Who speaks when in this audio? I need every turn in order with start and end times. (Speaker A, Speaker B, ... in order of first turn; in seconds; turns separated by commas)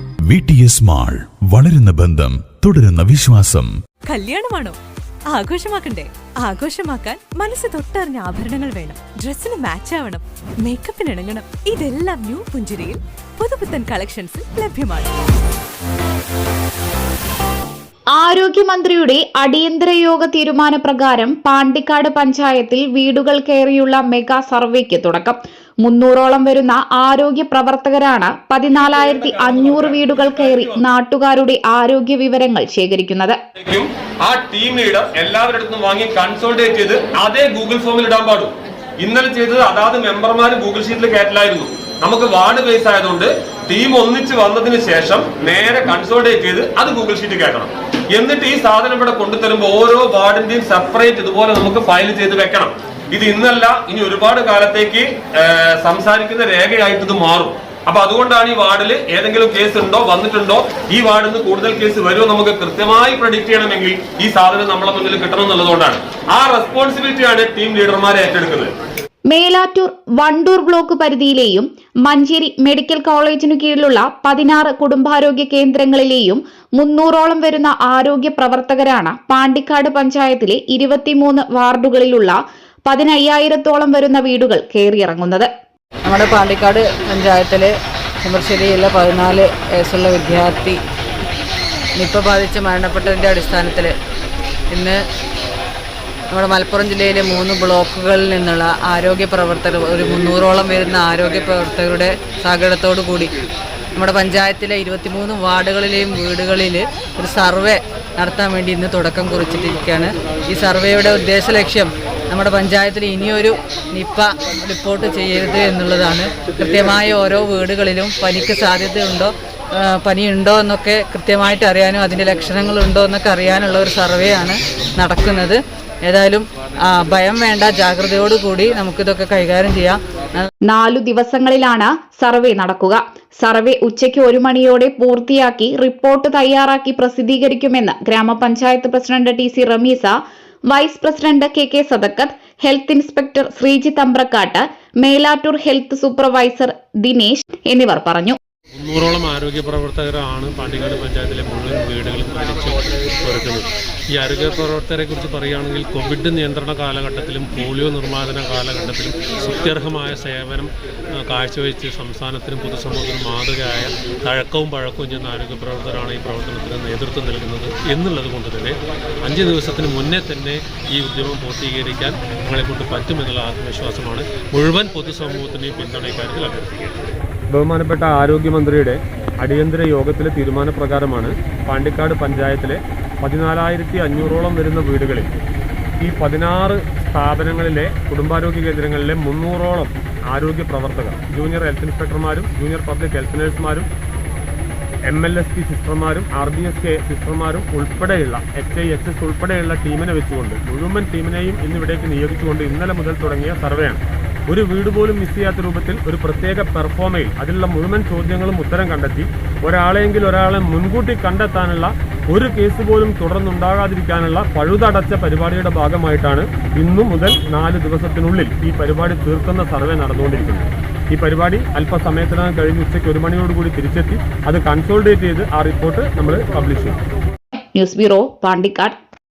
Speaker A: 0.3-3.7, Speaker B: 4.1-4.8, Speaker B: 5.3-15.1, Speaker C: 18.1-33.4, Speaker D: 28.8-30.8, Speaker D: 33.6-68.7, Speaker C: 69.3-85.5, Speaker E: 86.1-90.8, Speaker E: 92.0-93.9, Speaker E: 94.7-95.0, Speaker E: 96.3-103.3, Speaker E: 104.0-130.5, Speaker C: 130.7-140.2, Speaker C: 140.7-148.4, Speaker F: 148.8-177.0, Speaker D: 177.5-185.3, Speaker D: 186.0-193.9, Speaker D: 195.1-227.0, Speaker C: 227.8-228.9